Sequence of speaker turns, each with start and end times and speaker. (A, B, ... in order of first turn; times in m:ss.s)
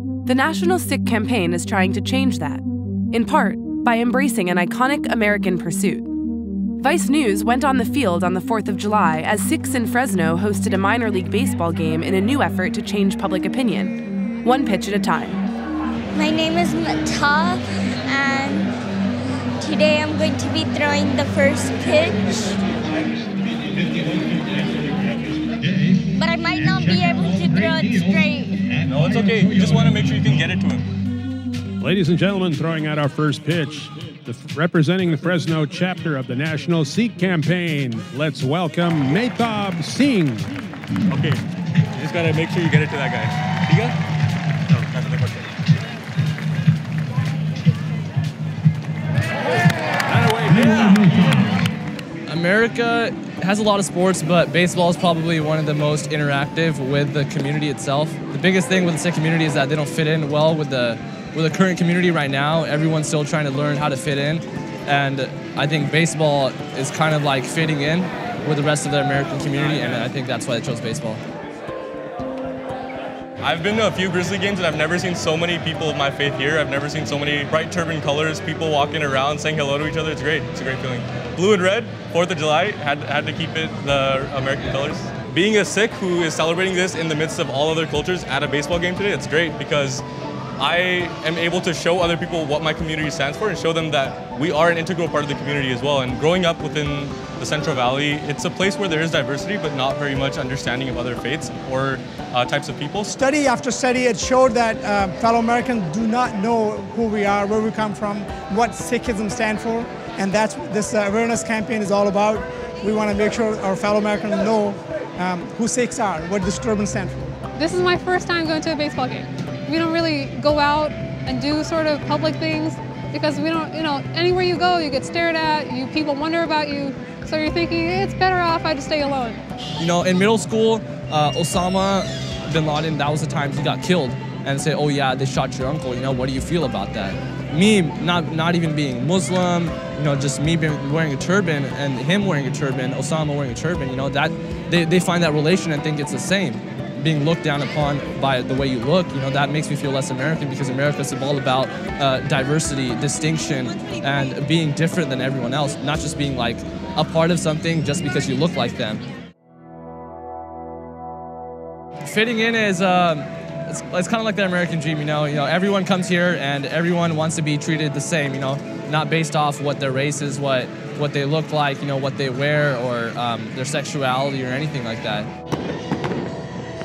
0:00.2-0:06.1 A
0:06.8-0:15.4 A
0:16.1-0:18.7 B
0:19.6-0:22.6 B
0:26.0-0:28.7 B
0:28.9-0:30.8 C
0:31.8-0:40.5 D
0:41.1-0:41.4 C
0:41.9-0:44.0 C
0:44.7-0:45.3 C
0:50.5-0:50.8 C
0:52.3-1:11.2 E
1:13.4-1:30.0 C
1:30.6-1:43.1 C
1:43.1-1:57.3 F
1:57.6-2:09.4 G
2:09.8-2:39.0 E
2:42.0-2:55.3 E